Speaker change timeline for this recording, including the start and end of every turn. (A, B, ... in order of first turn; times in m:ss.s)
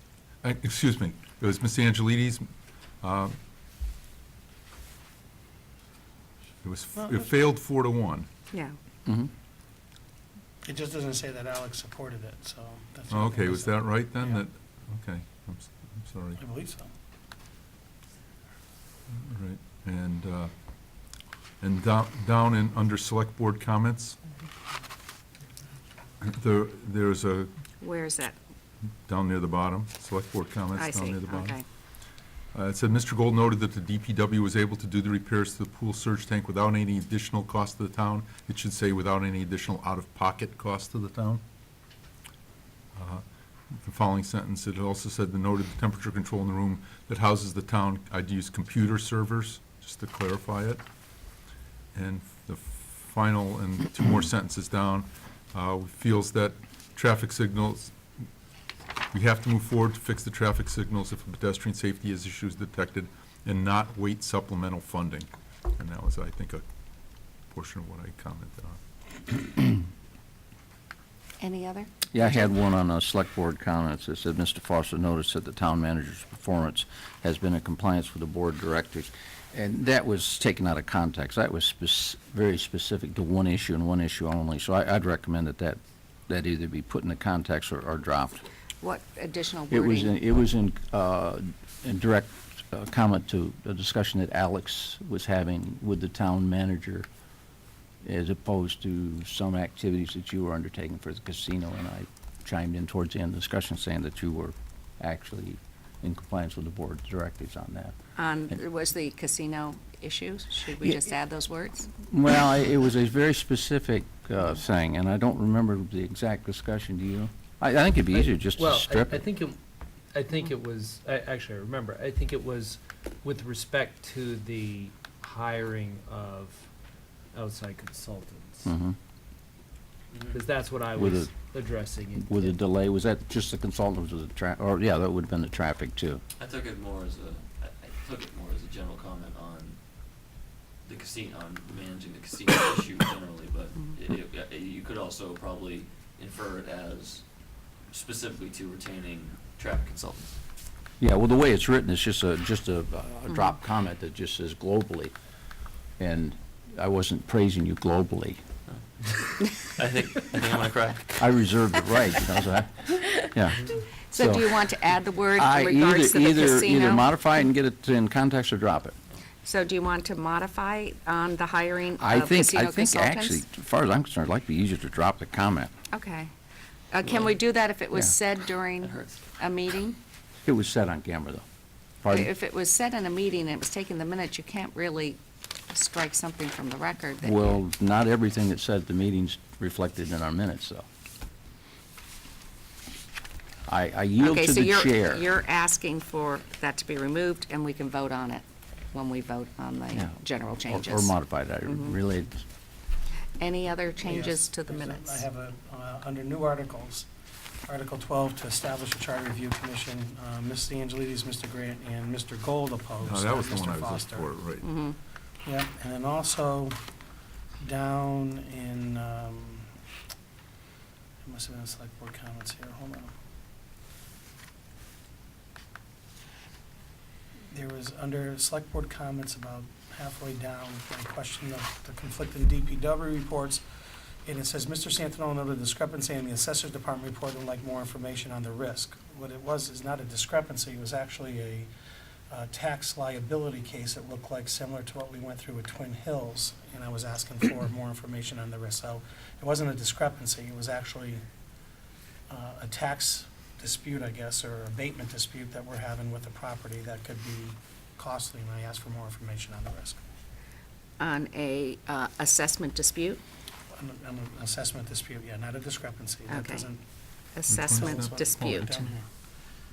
0:00.4-0:02.5 A
0:03.0-0:03.4 A
0:06.6-0:08.3 A
0:07.0-0:07.2 B
0:10.6-0:14.4 B
0:13.1-0:16.4 A
0:16.4-0:16.9 B
0:19.1-0:20.5 A
0:21.6-0:24.2 A
0:26.2-0:27.5 A
0:27.8-0:28.4 C
0:29.0-0:31.6 A
0:30.8-0:31.6 C
0:32.5-0:41.4 A
0:42.9-0:50.8 A
0:51.9-0:58.0 A
0:59.1-1:06.6 A
1:07.5-1:08.8 A
1:11.4-1:12.0 C
1:12.1-1:28.4 D
1:28.8-1:30.1 C
1:29.7-1:37.1 D
1:38.0-1:47.9 D
1:48.2-1:51.9 C
1:50.8-1:51.0 D
1:52.0-1:59.2 D
1:58.1-1:59.6 E
2:00.1-2:06.6 E
2:07.3-2:08.7 E
2:08.6-2:09.0 D
2:10.2-2:12.6 E
2:11.0-2:11.3 D
2:12.2-2:16.2 D
2:16.4-2:19.8 F
2:20.8-2:27.2 F
2:27.9-2:30.4 F
2:31.0-2:35.1 D
2:36.0-2:38.4 D
2:38.7-2:39.2 F
2:39.8-2:41.1 F
2:41.2-2:44.6 D
2:44.1-2:47.0 C
2:45.4-2:49.0 D
2:49.4-2:53.4 C
2:52.0-2:55.7 D
2:55.9-2:56.3 C
2:56.9-3:00.0 C
2:57.0-2:57.3 F
2:58.8-2:59.2 F
3:00.4-3:01.4 D
3:02.0-3:02.3 D
3:02.1-3:07.5 C
3:07.2-3:10.8 D
3:13.7-3:15.2 D
3:14.2-3:21.1 C
3:20.6-3:22.4 D
3:21.7-3:21.9 C
3:23.4-3:25.2 C
3:24.0-3:27.1 B
3:27.6-3:34.3 B
3:33.0-3:34.7 A
3:34.6-3:35.0 C
3:35.4-3:36.8 B
3:37.6-3:39.7 B
3:41.2-3:43.1 B
3:47.5-3:53.6 B
3:54.2-4:01.7 B
4:02.3-4:11.2 B
4:12.3-4:20.0 B
4:21.0-4:23.2 C
4:23.7-4:26.8 B
4:26.3-4:26.7 C
4:27.3-4:28.9 C
4:27.5-4:28.7 A
4:27.7-4:29.1 B